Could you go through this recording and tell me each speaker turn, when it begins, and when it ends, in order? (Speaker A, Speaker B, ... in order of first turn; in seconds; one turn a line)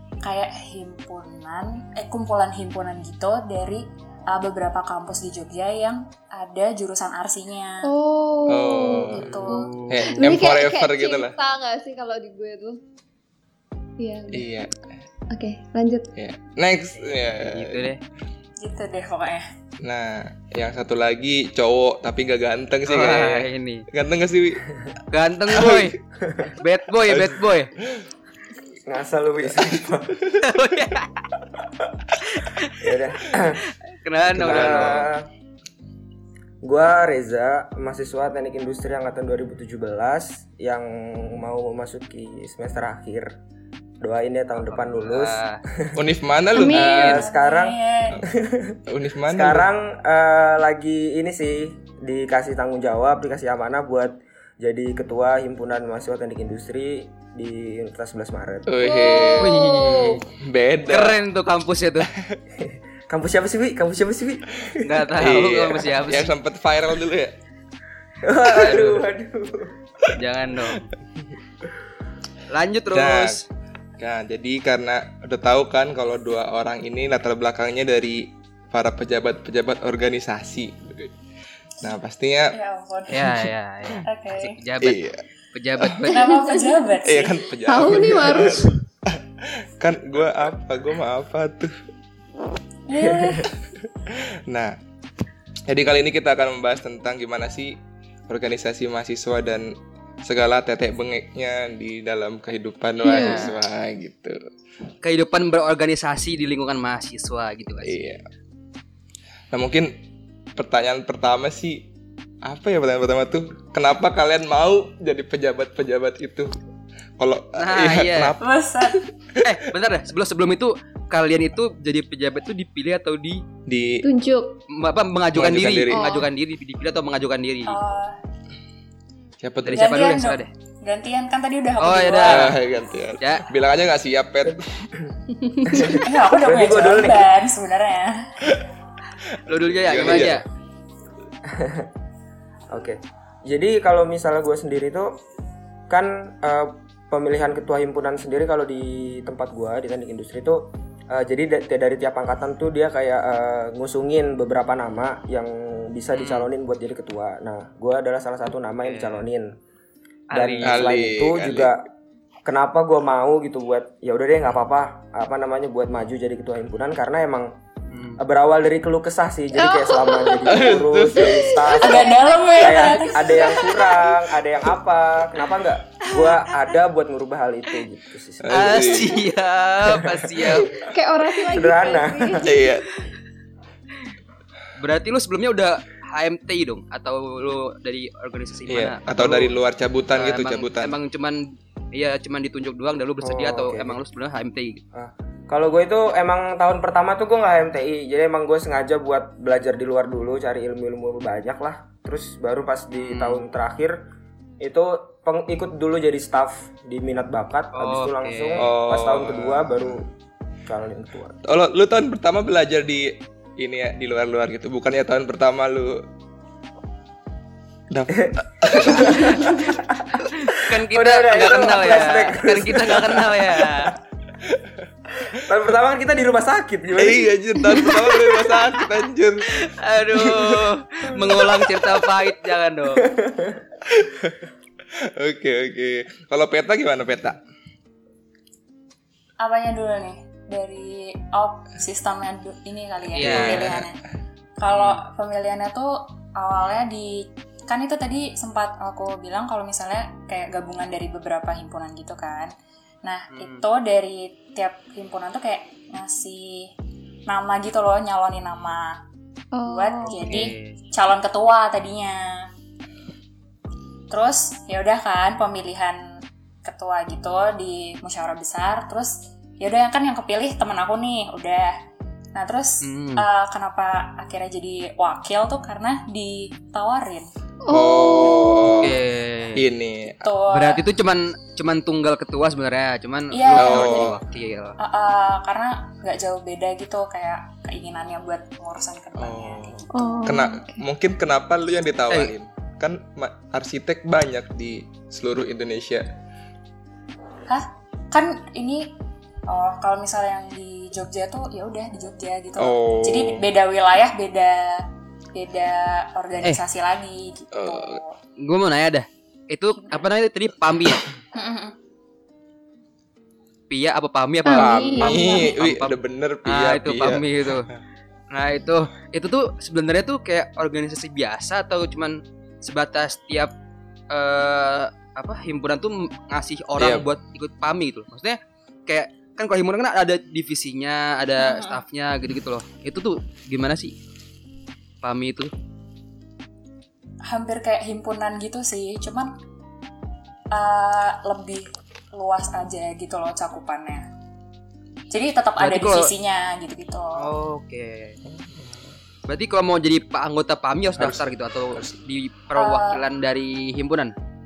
Speaker A: 0.2-7.9
Speaker B: 7.8-12.8
Speaker C: 8.5-11.3
Speaker A: 9.1-9.7
Speaker D: 9.3-10.1
Speaker B: 14.0-14.5
Speaker C: 14.3-14.7
Speaker B: 15.3-16.1
Speaker C: 16.1-17.9
Speaker D: 17.3-18.0
Speaker A: 18.6-19.4
Speaker C: 19.8-24.7
Speaker D: 22.9-23.9
Speaker D: 25.1-26.0
Speaker C: 25.6-25.9
Speaker D: 26.6-27.7
Speaker C: 27.1-27.4
Speaker E: 28.9-30.2
Speaker D: 30.4-31.2
Speaker D: 32.4-32.9
Speaker E: 32.8-33.6
Speaker D: 34.0-35.1
Speaker C: 34.4-35.1
Speaker E: 34.4-35.3
Speaker E: 36.6-43.4
Speaker E: 44.0-46.0
Speaker D: 44.6-45.6
Speaker C: 46.0-47.3
Speaker A: 46.5-48.2
Speaker E: 46.7-59.0
Speaker C: 48.9-49.7
Speaker C: 58.7-59.5
Speaker B: 58.8-60.3
Speaker D: 59.4-60.2
Speaker C: 60.4-61.2
Speaker D: 60.9-62.1
Speaker E: 62.6-64.9
Speaker D: 64.8-66.3
Speaker C: 65.2-67.3
Speaker E: 68.2-69.7
Speaker D: 68.5-69.1
Speaker D: 70.2-70.8
Speaker D: 72.5-73.4
Speaker C: 72.9-73.4
Speaker C: 74.0-81.1
Speaker C: 81.8-82.6
Speaker A: 82.5-83.5
Speaker D: 83.1-85.0
Speaker A: 84.0-84.6
Speaker C: 84.8-85.2
Speaker D: 85.5-86.4
Speaker C: 85.8-86.1
Speaker A: 86.1-87.4
Speaker B: 86.3-86.7
Speaker C: 87.0-91.7
Speaker B: 87.6-88.8
Speaker A: 92.9-93.5
Speaker E: 93.0-93.5
Speaker C: 94.1-94.8
Speaker C: 95.7-97.8
Speaker C: 98.3-104.4
Speaker D: 103.0-103.5
Speaker B: 103.1-103.5
Speaker D: 105.0-108.0
Speaker C: 107.8-108.2
Speaker C: 109.5-110.0
Speaker C: 110.6-111.9
Speaker C: 112.4-116.5
Speaker C: 117.2-119.6
Speaker D: 117.6-118.4
Speaker A: 118.4-119.0
Speaker D: 119.4-123.4
Speaker C: 123.7-124.0
Speaker B: 124.0-124.6
Speaker D: 124.7-127.8
Speaker C: 125.3-126.0
Speaker B: 125.9-126.3
Speaker A: 127.7-128.2
Speaker C: 129.4-130.0
Speaker D: 129.7-130.5
Speaker A: 129.7-132.5
Speaker D: 131.8-132.6
Speaker C: 132.2-134.8
Speaker D: 133.2-133.5
Speaker E: 134.5-135.1
Speaker E: 135.7-137.3
Speaker A: 135.9-138.3
Speaker D: 139.5-140.4
Speaker C: 139.8-140.4
Speaker E: 141.5-141.9
Speaker E: 142.7-145.2
Speaker E: 145.9-159.6
Speaker D: 156.2-156.5
Speaker D: 158.8-159.2
Speaker D: 160.3-160.9
Speaker E: 160.3-161.8
Speaker C: 160.6-161.7
Speaker E: 162.4-167.5
Speaker D: 167.9-168.2
Speaker E: 168.2-178.8
Speaker B: 169.6-174.0
Speaker C: 170.5-171.8
Speaker A: 171.8-173.6
Speaker D: 176.2-176.6
Speaker C: 178.4-179.2
Speaker D: 178.5-180.8
Speaker E: 179.9-180.6
Speaker B: 180.9-182.7
Speaker E: 181.5-182.6
Speaker C: 182.4-182.8
Speaker D: 184.8-189.5
Speaker C: 188.7-190.9
Speaker D: 190.1-194.8
Speaker E: 193.2-194.0
Speaker E: 194.9-204.0
Speaker D: 203.0-203.5
Speaker E: 204.6-210.1
Speaker D: 207.8-208.7
Speaker C: 208.6-210.0
Speaker E: 210.7-211.4
Speaker C: 211.4-216.0
Speaker C: 217.9-219.8
Speaker E: 218.2-220.1
Speaker D: 220.3-223.9
Speaker E: 220.9-223.8
Speaker E: 225.3-227.3
Speaker C: 226.9-230.6
Speaker D: 229.7-233.1
Speaker E: 232.9-233.6
Speaker C: 233.9-234.4
Speaker C: 235.2-237.4
Speaker A: 239.4-244.0
Speaker D: 243.2-243.8
Speaker C: 243.2-243.9
Speaker A: 244.6-252.5
Speaker D: 244.8-245.0
Speaker A: 253.0-256.7
Speaker D: 253.4-253.6
Speaker A: 257.3-259.0
Speaker B: 259.5-260.5
Speaker A: 259.6-262.5
Speaker D: 260.1-260.8
Speaker A: 264.1-271.8
Speaker A: 272.4-277.3
Speaker D: 272.8-273.3
Speaker B: 277.6-278.8
Speaker C: 277.7-279.0
Speaker D: 278.7-279.6
Speaker C: 279.6-280.2
Speaker A: 280.2-280.9
Speaker D: 280.5-284.8
Speaker A: 283.3-284.2
Speaker C: 283.5-284.2
Speaker A: 284.8-290.2
Speaker C: 289.2-296.1
Speaker B: 289.9-290.8
Speaker A: 297.5-299.0
Speaker A: 299.5-308.2
Speaker C: 302.6-303.5
Speaker C: 307.5-308.0
Speaker D: 308.4-311.1
Speaker A: 311.3-311.8
Speaker D: 313.7-317.7
Speaker B: 314.4-315.5
Speaker C: 314.5-317.2
Speaker D: 318.3-323.5
Speaker D: 324.1-333.9
Speaker C: 326.8-327.1
Speaker A: 331.4-331.8
Speaker D: 335.0-335.5
Speaker A: 337.2-339.3
Speaker A: 340.5-344.1
Speaker A: 345.1-347.3
Speaker D: 345.6-346.1
Speaker D: 347.2-348.2
Speaker C: 348.3-348.8
Speaker D: 349.3-354.1
Speaker C: 351.0-352.0
Speaker A: 352.6-353.0